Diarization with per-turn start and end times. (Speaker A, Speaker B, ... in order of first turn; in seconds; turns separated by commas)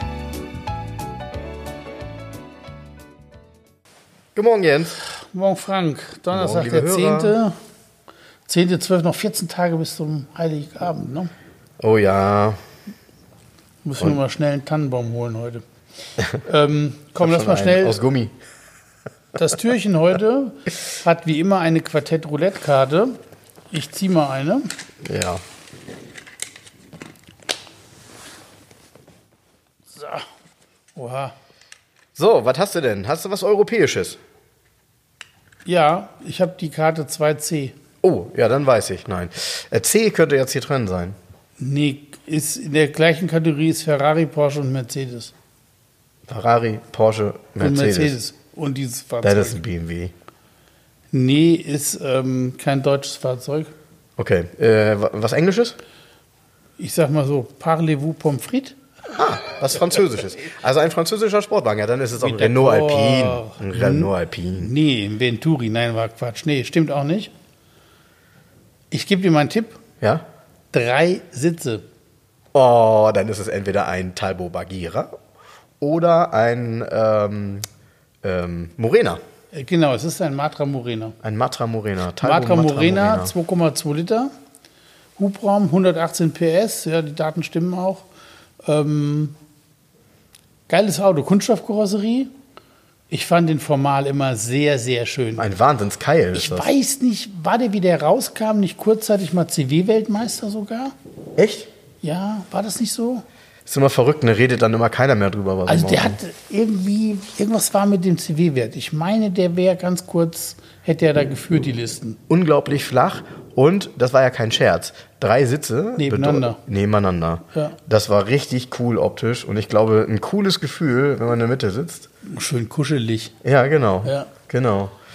Speaker A: 4.3-5.0, Speaker B: 5.1-7.5, Speaker A: 6.3-7.3, Speaker B: 8.5-11.3, Speaker A: 11.8-12.6, Speaker B: 13.8-15.6, Speaker B: 16.3-18.0, Speaker A: 17.2-18.3, Speaker B: 19.4-23.2, Speaker B: 23.7-24.7, Speaker A: 25.0-25.4, Speaker B: 29.9-30.3, Speaker B: 30.9-31.3, Speaker A: 32.1-34.2, Speaker B: 35.6-37.8, Speaker A: 38.0-41.1, Speaker B: 41.6-45.3, Speaker A: 46.3-48.1, Speaker B: 47.6-49.6, Speaker A: 49.2-50.1, Speaker B: 51.1-53.7, Speaker A: 54.2-55.8, Speaker B: 56.8-58.8, Speaker A: 59.1-64.7, Speaker B: 62.2-67.3, Speaker B: 68.9-69.8, Speaker B: 70.7-71.8, Speaker A: 72.5-75.1, Speaker A: 75.8-77.6, Speaker A: 78.2-79.2, Speaker B: 79.5-81.2, Speaker A: 81.2-83.3, Speaker B: 82.2-84.3, Speaker B: 85.2-88.0, Speaker B: 88.6-89.3, Speaker B: 90.7-92.3, Speaker B: 93.1-95.5, Speaker A: 95.4-96.7, Speaker B: 96.3-100.9, Speaker A: 101.4-101.7, Speaker B: 102.0-103.2, Speaker A: 103.7-106.2, Speaker B: 105.7-112.2, Speaker A: 112.3-122.1, Speaker B: 116.0-116.6, Speaker B: 122.2-123.3, Speaker A: 123.4-124.9, Speaker B: 124.0-124.3